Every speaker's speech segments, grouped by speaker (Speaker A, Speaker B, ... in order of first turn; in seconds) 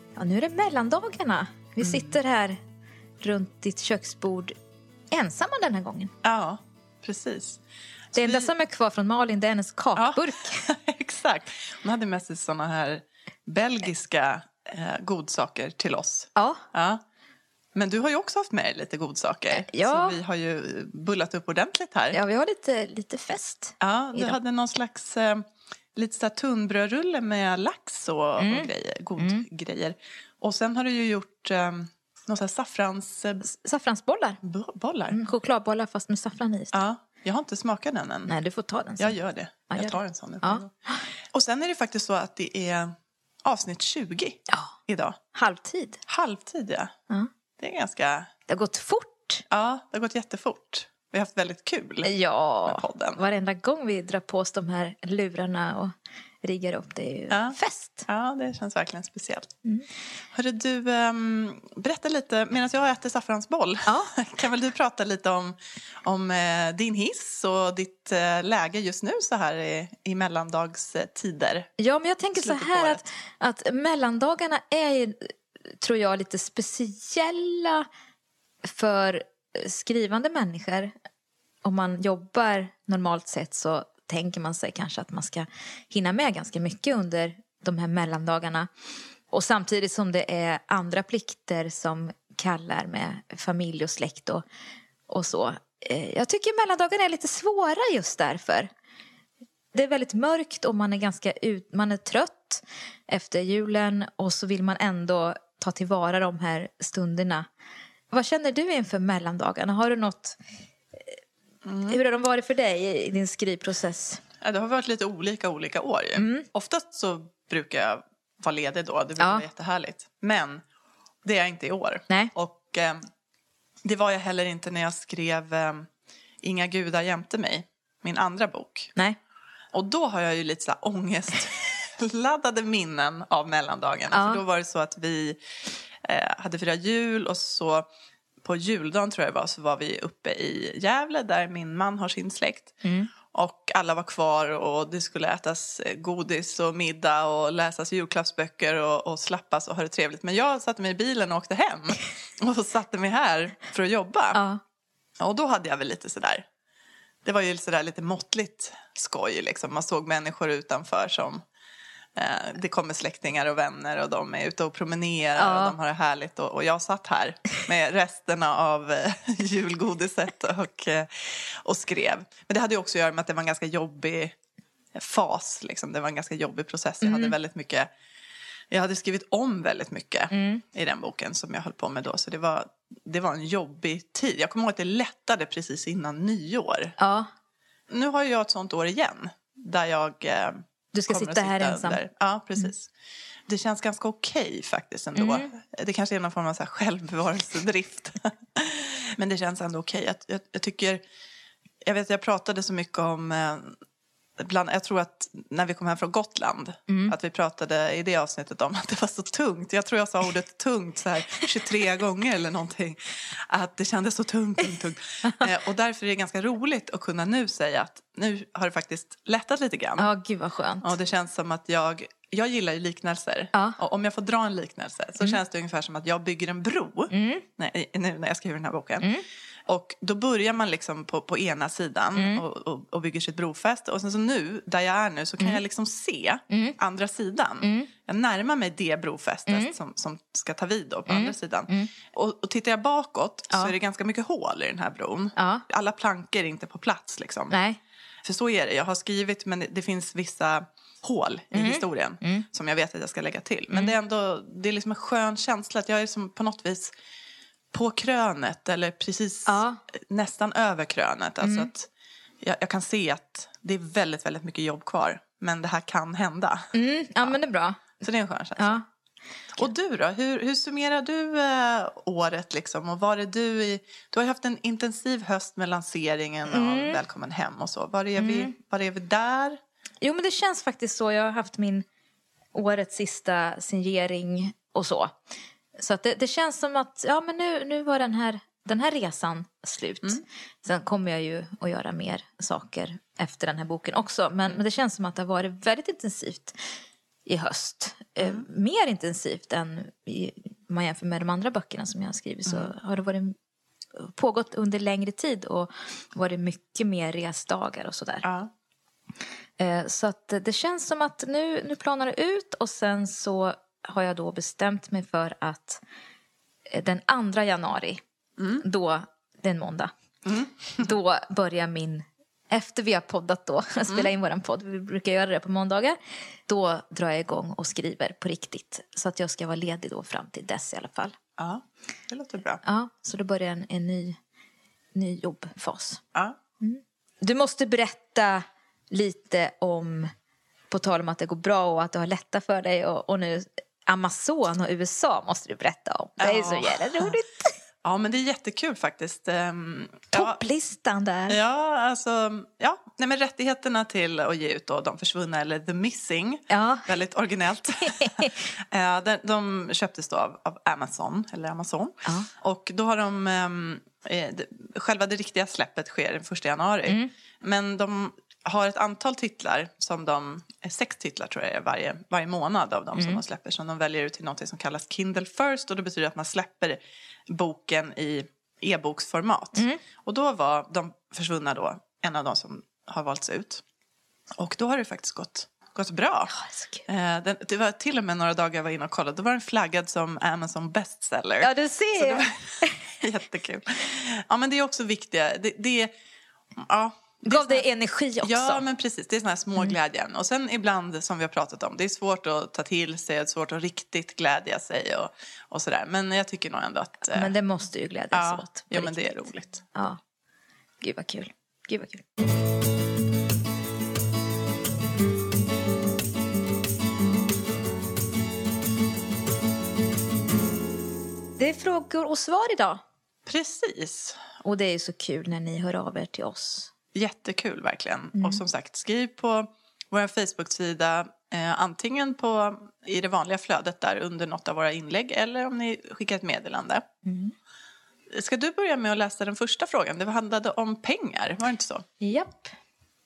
Speaker A: 0.2-2.6, 3.2-4.5, 5.1-6.1, 8.1-10.7, 16.4-16.6, 19.5-20.2, 22.1-24.4, 28.4-29.4, 33.4-34.4, 35.1-36.8, 38.3-39.2, 39.7-41.0, 44.5-44.8, 45.3-46.0, 48.5-49.4, 52.0-58.1, 63.9-64.1, 71.8-77.9, 78.6-80.9, 81.6-88.7, 89.3-94.4, 95.1-98.7, 99.7-107.5, 108.1-110.4, 111.9-114.2, 116.2-116.5, 119.2-119.5, 134.1-134.4, 142.8-143.1, 154.3-154.6, 165.4-165.8, 177.0-177.3, 180.3-180.6, 187.0-187.3, 190.9-192.0, 195.2-195.5, 206.9-207.1, 220.0-220.9, 227.1-227.4, 232.2-232.4, 236.5-236.8, 237.6-237.9, 239.5-239.8, 241.1-241.9, 245.4-245.6, 247.5-247.8, 251.5-252.4, 259.5-259.8, 261.4-261.7, 266.7-268.0, 268.6-268.9, 276.5-277.0, 278.2-278.5, 280.0-281.9, 282.5-285.1, 285.8-296.6, 297.2-303.4, 304.0-308.2, 309.6-315.8, 316.7-318.0, 318.6-319.9, 320.8-331.1, 332.6-334.2, 334.9-336.0, 336.6-340.1, 340.7-347.6, 350.1-351.4, 356.5-356.9, 357.8-358.4, 366.9-367.1, 372.9-373.2, 379.6-379.8, 386.3-386.9, 391.4-392.8, 397.2-398.6, 407.1-409.1, 409.7-410.0, 410.8-412.0, 421.4-422.8, 424.4-426.7, 428.1-428.4, 437.1-437.3, 442.0-442.5
Speaker B: 1.8-2.1, 6.2-7.6, 8.1-8.5, 9.9-17.0, 17.7-22.2, 23.8-33.4, 34.4-35.2, 36.7-38.3, 39.0-40.7, 41.3-45.2, 46.1-46.9, 47.6-48.3, 49.5-52.1, 52.7-53.2, 57.3-59.5, 60.3-71.7, 72.3-73.0, 111.6-112.0, 114.4-120.6, 121.2-123.0, 123.8-125.9, 126.4-128.9, 129.7-135.4, 136.0-137.9, 138.4-154.4, 155.2-156.4, 157.2-161.4, 162.2-174.4, 174.9-177.9, 178.7-186.9, 187.9-192.9, 193.5-201.0, 201.8-203.8, 204.4-220.1, 220.8-229.1, 229.7-247.6, 248.2-256.9, 257.7-261.9, 262.4-266.7, 268.0-268.8, 269.6-279.6, 298.2-298.4, 302.5-302.7, 308.2-308.5, 318.4-318.6, 320.2-320.9, 331.4-332.6, 346.2-347.2, 347.8-350.4, 351.3-383.6, 384.4-386.3, 386.9-395.9, 396.6-397.6, 398.2-407.3, 408.1-409.6, 423.2-424.2, 426.9-436.9, 438.1-441.9